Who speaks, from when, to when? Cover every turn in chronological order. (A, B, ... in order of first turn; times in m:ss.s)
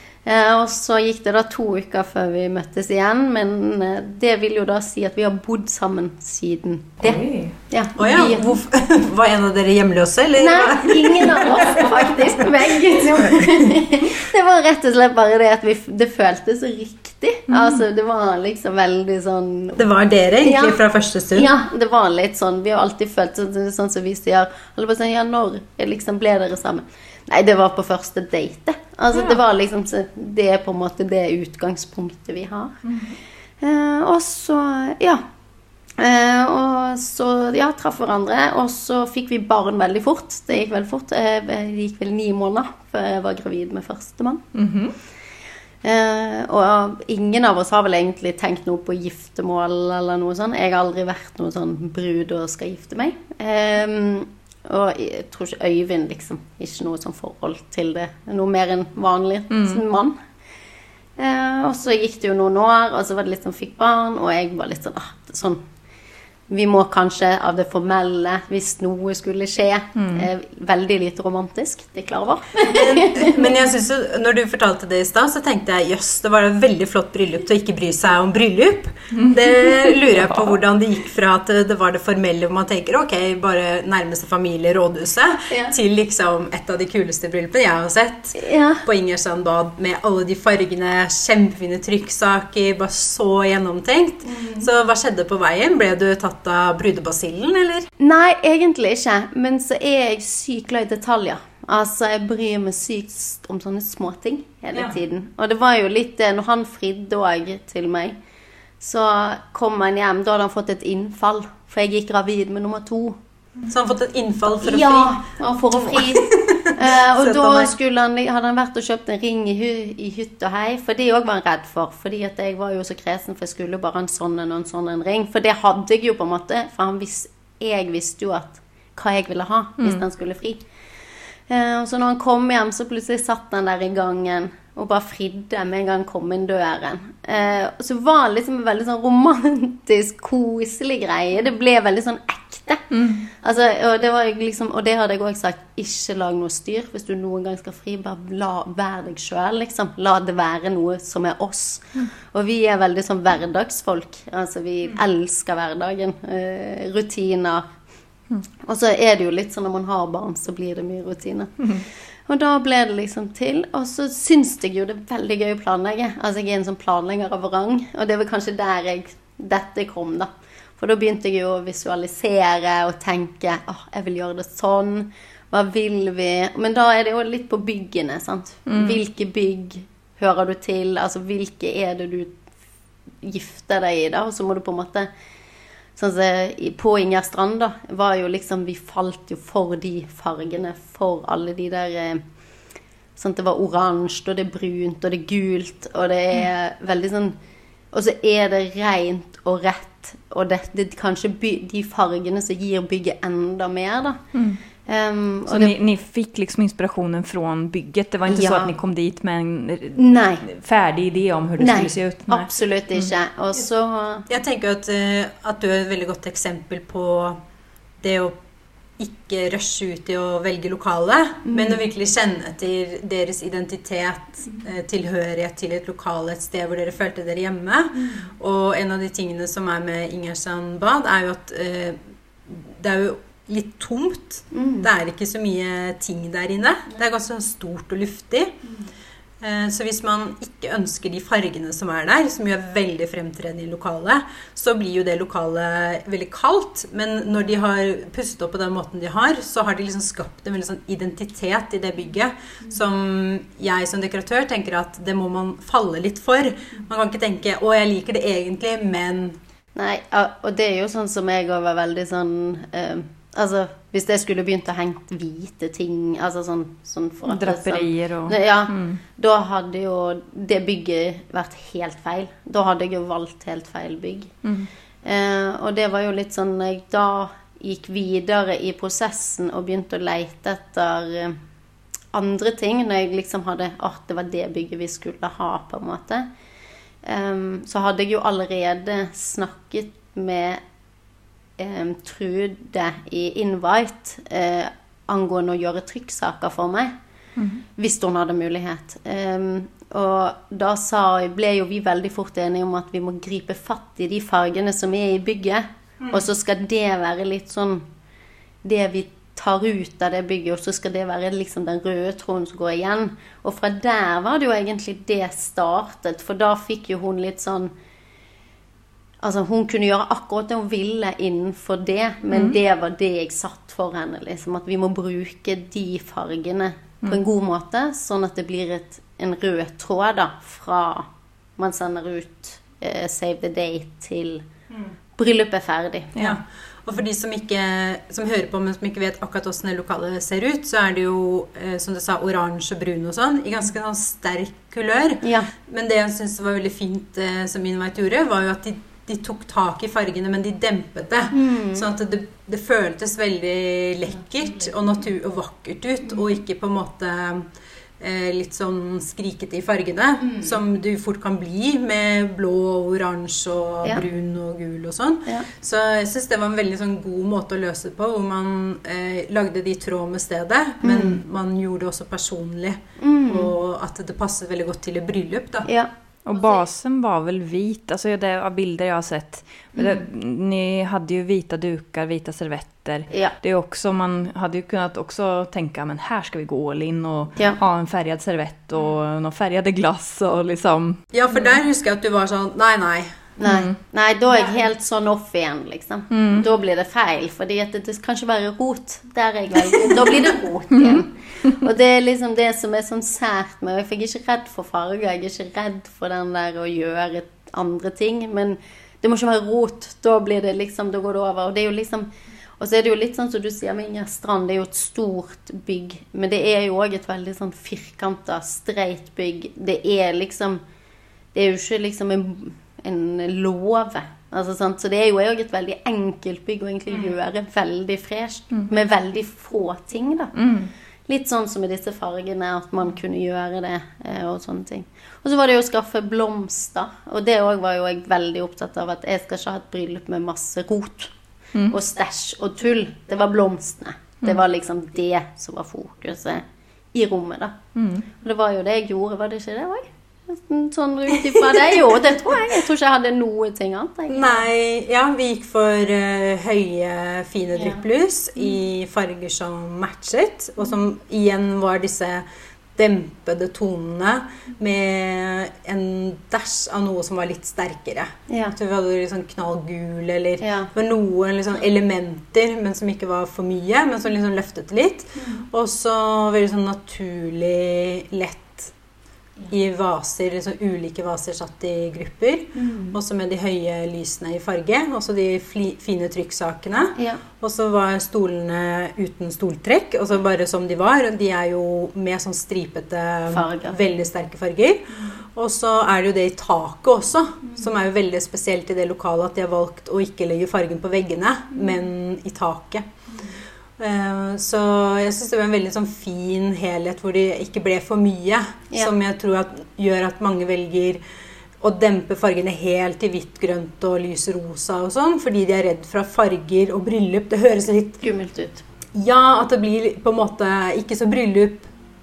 0:00.2-0:08.4 A
0:07.0-0:07.5 B
0:08.0-0:13.6 C
0:10.4-0:19.8 A
0:17.5-0:17.8 B
0:19.8-0:21.5 C
0:20.4-0:20.8 A
0:21.3-0:32.8 A
0:32.8-0:33.1 B
0:33.6-0:35.2 A
0:36.0-0:44.4 A
0:44.5-0:44.9 B
0:45.8-1:00.2 A
0:59.5-0:59.8 B
1:01.2-1:05.6 A
1:06.5-1:13.4 A
1:10.0-1:10.3 B
1:12.6-1:37.9 C
1:19.1-1:20.4 B
1:25.5-1:25.7 A
1:28.3-1:28.8 A
1:34.3-1:34.6 A
1:38.0-1:48.2 A
1:48.8-1:53.2 A
1:53.7-1:57.7 C
1:54.6-2:10.6 A
2:11.5-2:22.8 A
2:22.9-2:23.2 B
2:23.4-2:37.7 A
2:38.6-3:02.4 A
2:58.7-2:59.0 B
3:03.2-3:05.1 A
3:06.0-3:12.2 A
3:13.2-3:17.4 A
3:17.9-3:24.2 A
3:24.3-3:24.6 B
3:24.9-3:25.7 A
3:25.5-3:33.1 B
3:28.3-3:28.7 A
3:30.0-3:30.4 A
3:31.6-3:34.3 A
3:34.3-3:37.4 C
3:38.0-3:38.4 C
3:39.0-3:58.6 C
3:41.5-3:41.8 A
3:48.0-3:48.2 A
3:54.5-3:54.9 A
3:59.4-4:19.4 C
4:19.7-4:34.3 A
4:27.3-4:29.0 B
4:34.4-4:34.7 B
4:35.0-4:41.4 A
4:42.1-4:46.3 A
4:47.0-4:50.6 A
4:51.6-4:56.9 A
4:57.4-4:57.6 B
4:57.8-5:07.8 A
5:08.6-5:17.7 A
5:19.2-5:34.4 A
5:22.3-5:22.6 B
5:35.2-5:36.1 A
5:36.2-6:15.7 C
5:45.2-5:45.5 A
5:51.3-5:51.9 A
6:10.8-6:11.2 A
6:13.0-6:13.5 A
6:15.6-6:16.6 A
6:16.2-6:31.0 B
6:19.8-6:20.0 A
6:31.1-6:33.2 C
6:33.4-6:52.1 A
6:33.4-6:33.7 B
6:36.1-6:36.4 B
6:40.7-6:41.0 B
6:52.6-7:00.6 A
7:01.3-7:10.3 A
7:10.4-7:10.7 B
7:11.1-7:21.1 A
7:21.7-7:27.5 A
7:27.8-7:28.1 B
7:28.2-7:34.3 A
7:34.1-7:42.2 C
7:42.8-7:58.7 C
7:48.3-7:48.5 A
7:50.4-7:50.7 A
7:55.2-7:55.4 A
7:59.5-8:22.9 C
8:02.5-8:03.0 A
8:07.0-8:07.2 A
8:13.3-8:13.8 A
8:23.8-8:31.0 C
8:31.6-8:38.1 C
8:38.0-8:38.6 A
8:38.9-8:41.7 C